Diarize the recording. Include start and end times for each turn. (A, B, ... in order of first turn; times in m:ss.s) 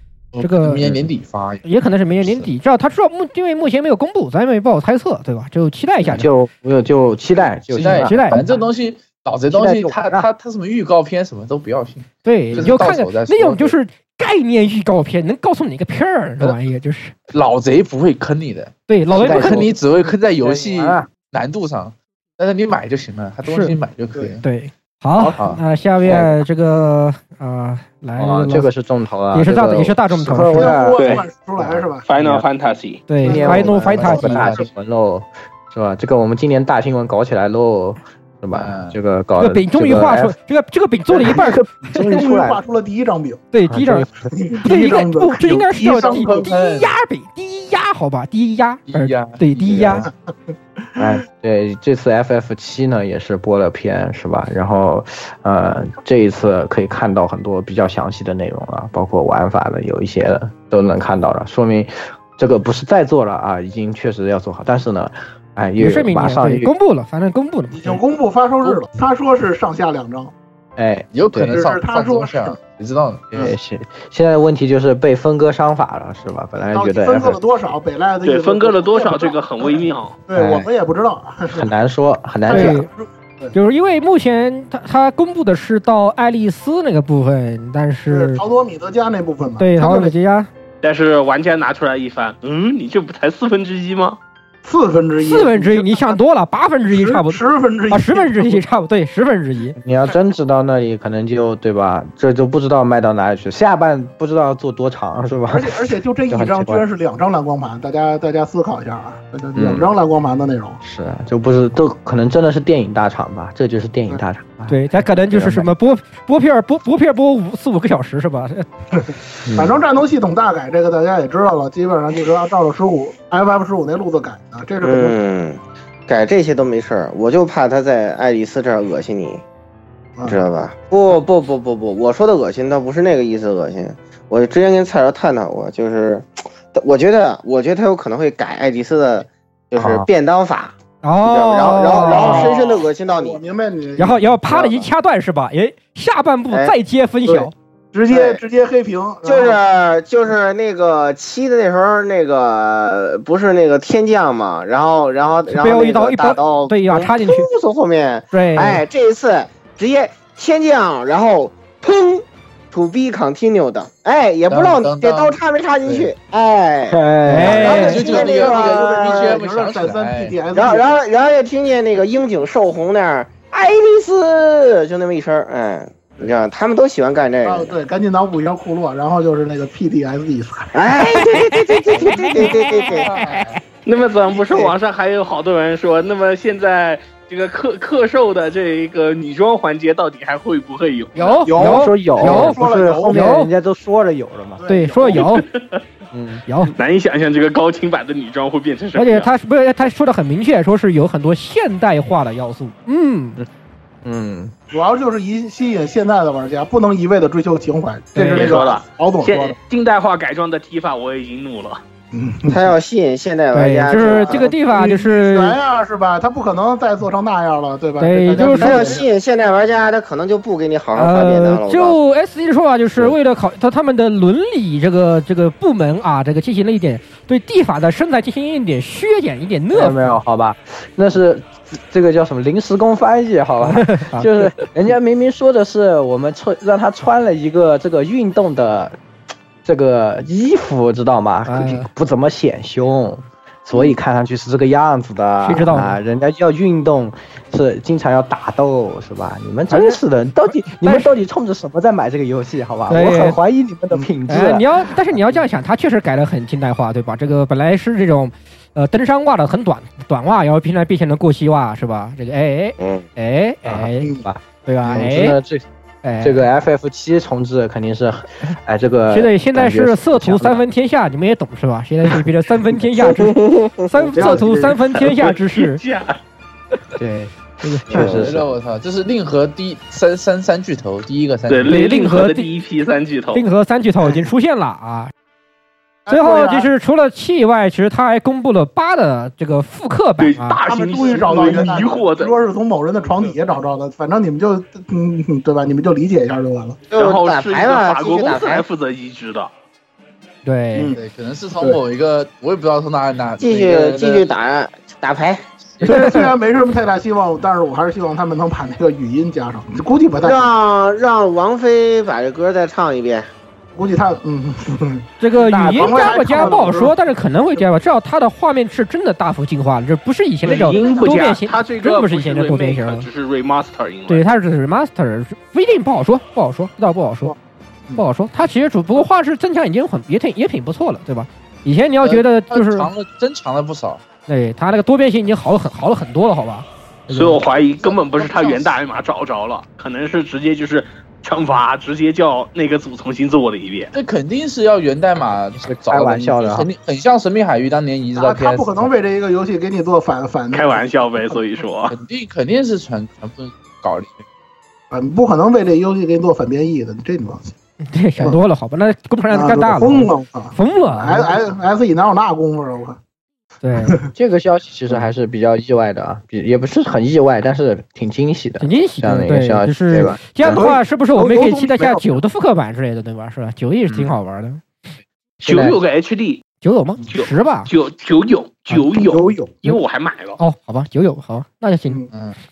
0:00.3-0:02.5 A
0:00.4-0:00.9 B
0:01.6-0:06.3 B
0:06.0-0:08.6 C
0:07.7-0:13.7 A
0:07.7-0:08.4 B
0:09.5-0:10.3 C
0:12.2-0:17.1 B
0:17.3-0:24.4 A
0:18.9-0:19.7 B
0:19.2-0:21.1 C
0:23.4-0:23.7 B
0:24.4-0:28.7 B
0:25.2-0:26.2 A
0:26.0-0:26.4 C
0:28.2-0:32.4 C
0:29.3-0:30.8 B
0:30.5-0:32.0 D
0:31.0-0:31.2 E
0:32.1-0:33.0 E
0:33.1-0:34.5 B
0:33.2-0:34.1 D
0:33.2-0:40.4 C
0:34.0-0:34.6 A
0:38.5-0:39.0 A
0:39.4-0:42.2 B
0:41.1-0:42.6 C
0:42.0-0:43.4 D
0:43.5-0:44.1 B
0:43.7-0:44.3 C
0:44.3-0:46.5 D
0:44.6-0:50.1 B
0:45.9-0:46.9 A
0:48.9-0:50.1 A
0:51.0-1:06.7 C
1:05.8-1:08.0 B
1:07.7-1:10.3 D
1:10.8-1:11.6 C
1:11.1-1:13.5 A
1:11.5-1:12.6 D
1:13.3-1:17.4 C
1:16.7-1:21.7 D
1:18.2-1:20.2 E
1:20.3-1:20.7 C
1:21.5-1:22.8 C
1:22.4-1:23.5 D
1:22.5-1:22.9 B
1:23.5-1:28.4 B
1:28.1-1:30.1 D
1:29.6-1:30.5 B
1:30.8-1:34.2 E
1:34.6-1:36.2 D
1:35.2-1:39.8 B
1:36.9-1:38.6 D
1:39.8-1:46.8 C
1:45.5-1:50.8 D
1:49.6-1:49.9 C
1:50.8-1:55.7 C
1:54.7-1:58.7 B
1:59.4-1:59.7 C
1:59.5-2:05.2 D
2:04.8-2:09.4 F
2:10.2-2:23.4 F
2:19.8-2:20.1 C
2:21.0-2:22.5 B
2:22.0-2:24.9 D
2:24.0-2:27.5 B
2:27.2-2:29.6 D
2:28.1-2:28.4 F
2:29.2-2:47.0 F
2:35.5-2:37.5 B
2:38.3-2:38.8 B
2:44.5-2:46.1 A
2:46.9-2:48.0 C
2:47.2-2:48.0 B
2:47.4-2:50.9 D
2:47.6-2:49.4 F
2:47.7-2:50.4 A
2:50.5-2:57.7 F
2:57.4-3:00.7 D
3:00.7-3:03.1 F
3:02.2-3:03.6 A
3:03.8-3:11.4 E
3:04.3-3:04.6 D
3:11.2-3:13.5 B
3:11.4-3:13.4 D
3:11.4-3:14.7 C
3:14.6-3:15.2 D
3:14.7-3:15.4 B
3:15.1-3:15.8 E
3:16.1-3:16.4 C
3:16.5-3:16.7 B
3:16.7-3:19.3 E
3:18.9-3:23.4 B
3:24.0-3:24.5 C
3:24.7-3:29.6 D
3:28.1-3:28.5 B
3:28.2-3:31.8 E
3:32.1-3:32.7 D
3:32.5-3:34.5 F
3:33.5-3:35.6 B
3:34.0-3:39.1 D
3:38.0-3:39.0 B
3:38.4-3:42.0 F
3:41.0-3:50.1 B
3:49.7-3:59.0 C
3:53.6-3:54.6 B
3:59.6-4:15.4 C
4:01.5-4:01.9 B
4:05.4-4:06.0 B
4:09.7-4:10.0 B
4:10.8-4:11.1 B
4:12.9-4:13.4 B
4:14.3-4:24.1 B
4:23.6-4:25.6 C
4:24.6-4:25.4 B
4:26.0-4:26.4 B
4:26.2-4:30.6 C
4:29.1-4:35.8 B
4:34.0-4:34.8 D
4:35.2-4:36.2 E
4:37.0-4:38.5 C
4:37.6-4:38.0 B
4:37.9-4:41.8 A
4:41.5-4:43.4 E
4:41.7-4:42.5 B
4:43.3-4:45.1 B
4:46.0-4:46.7 D
4:46.1-4:50.6 B
4:50.2-4:52.3 E
4:50.6-4:56.8 D
4:56.9-4:58.6 F
4:56.9-4:59.5 E
5:00.4-5:00.9 B
5:00.7-5:01.0 D
5:00.9-5:04.2 A
5:03.4-5:05.4 F
5:05.8-5:06.2 B
5:05.8-5:10.5 D
5:10.2-5:13.3 F
5:13.7-5:16.9 D
5:15.2-5:23.0 B
5:20.4-5:24.2 E
5:20.5-5:20.9 D
5:24.1-5:27.3 B
5:28.0-5:32.9 B
5:32.0-5:34.0 A
5:34.3-5:37.4 B
5:37.1-5:43.9 E
5:37.8-5:38.7 D
5:43.9-5:48.9 A
5:45.6-5:46.7 C
5:48.1-5:51.4 D
5:50.5-5:51.9 E
5:51.9-5:54.2 A
5:54.9-5:57.5 D
5:57.9-6:01.3 B
5:59.3-6:03.0 D
6:03.6-6:04.0 B
6:04.1-6:10.6 C
6:08.6-6:14.6 B
6:10.4-6:12.2 D
6:15.4-6:15.8 C
6:15.4-6:16.4 E
6:16.6-6:17.7 B
6:17.1-6:20.4 E
6:18.7-6:19.6 D
6:20.4-6:22.0 B
6:22.1-6:22.4 A